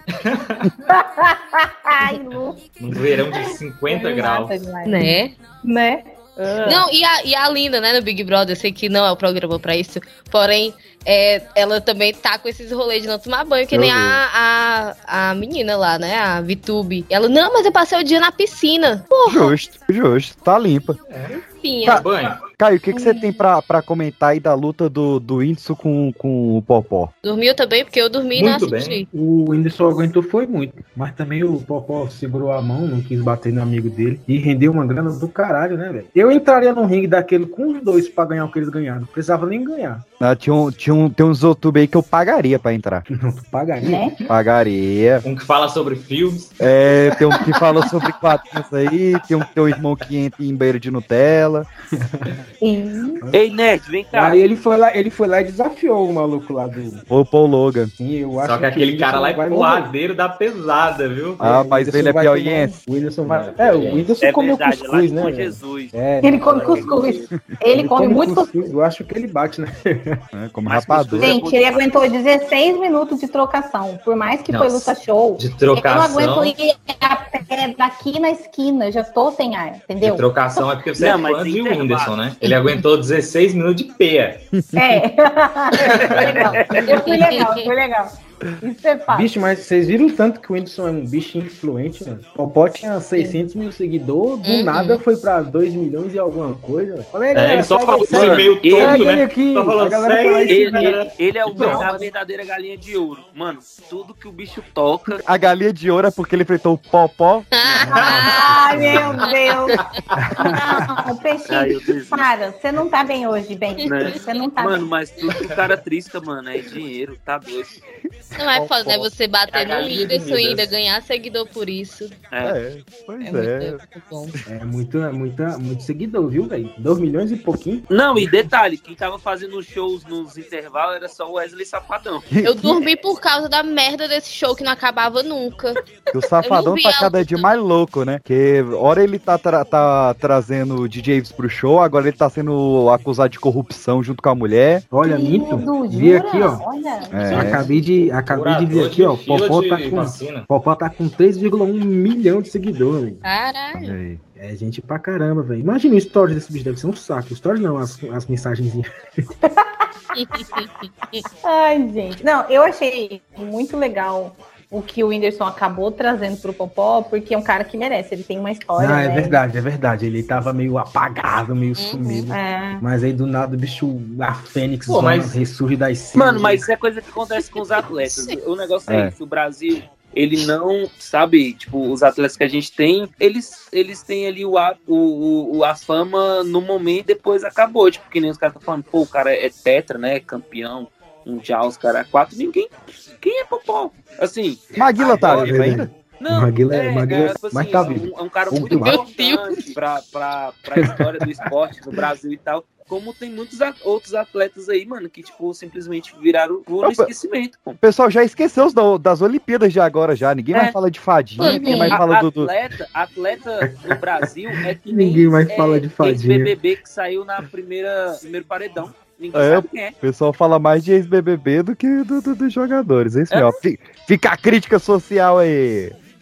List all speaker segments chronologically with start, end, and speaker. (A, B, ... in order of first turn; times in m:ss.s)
0:00.2-0:00.7 A
0:00.9-0:02.6 B
0:02.8-0:04.7 A
0:03.3-0:06.9 B
0:04.8-0:05.3 C
0:06.6-0:19.6 C
0:13.7-0:14.2 D
0:19.3-0:21.0 D
0:21.1-0:22.4 A
0:21.6-0:22.0 C
0:21.8-0:27.1 D
0:22.9-0:23.4 B
0:27.2-0:29.1 C
0:28.3-0:29.0 A
0:29.1-0:40.0 E
0:40.2-0:43.0 D
0:43.1-0:44.1 E
0:43.8-0:44.2 B
0:44.3-0:45.2 D
0:45.2-0:46.6 A
0:46.6-0:51.7 D
0:47.3-0:47.6 A
0:52.0-0:52.4 E
0:52.6-0:53.2 B
0:53.3-0:54.4 F
0:54.1-0:57.0 E
0:57.1-0:57.9 D
0:58.0-0:59.9 E
0:58.4-1:01.4 A
1:01.4-1:07.0 E
1:01.4-1:02.8 D
1:03.3-1:04.1 A
1:04.2-1:07.3 F
1:06.2-1:08.7 B
1:07.7-1:10.2 E
1:10.3-1:11.4 D
1:10.7-1:11.9 F
1:11.2-1:20.3 B
1:14.5-1:16.5 A
1:20.0-1:24.4 A
1:21.0-1:22.2 F
1:24.6-1:25.0 D
1:24.8-1:29.3 B
1:26.2-1:27.2 F
1:27.1-1:27.7 C
1:29.1-1:41.9 E
1:34.4-1:35.0 C
1:37.3-1:42.0 A
1:38.0-1:39.1 F
1:40.5-1:45.2 F
1:45.2-1:47.5 D
1:47.5-1:48.6 C
1:48.0-1:49.8 B
1:48.6-1:49.3 E
1:49.3-1:49.8 C
1:50.2-1:51.0 E
1:50.4-1:54.9 B
1:51.5-1:52.3 F
1:53.8-1:57.8 F
1:58.4-2:02.2 C
1:58.5-1:58.9 D
1:59.5-2:00.6 A
2:02.3-2:02.6 F
2:02.4-2:03.8 D
2:03.2-2:04.4 C
2:04.5-2:08.5 E
2:07.9-2:12.3 F
2:12.3-2:12.8 D
2:12.4-2:15.8 C
2:16.1-2:24.8 D
2:16.4-2:17.5 C
2:24.9-2:26.7 E
2:25.0-2:27.6 B
2:27.1-2:27.6 D
2:27.3-2:33.2 E
2:28.3-2:30.5 A
2:33.2-2:34.0 C
2:33.8-2:34.2 D
2:34.4-2:38.9 E
2:39.5-2:39.8 B
2:40.2-2:41.2 C
2:41.4-2:49.4 B
2:48.8-2:56.7 E
2:51.8-2:52.3 C
2:52.3-2:52.8 B
2:54.9-2:55.4 A
2:56.1-3:15.5 F
2:58.1-2:58.4 C
2:58.9-2:59.1 D
3:14.8-3:15.9 D
3:15.3-3:19.0 E
3:16.2-3:27.8 F
3:18.7-3:19.6 C
3:20.7-3:21.4 E
3:26.8-3:27.1 D
3:27.8-3:32.5 D
3:31.4-3:32.0 B
3:31.4-3:40.0 F
3:33.6-3:36.6 E
3:39.3-3:46.0 D
3:43.3-3:43.6 F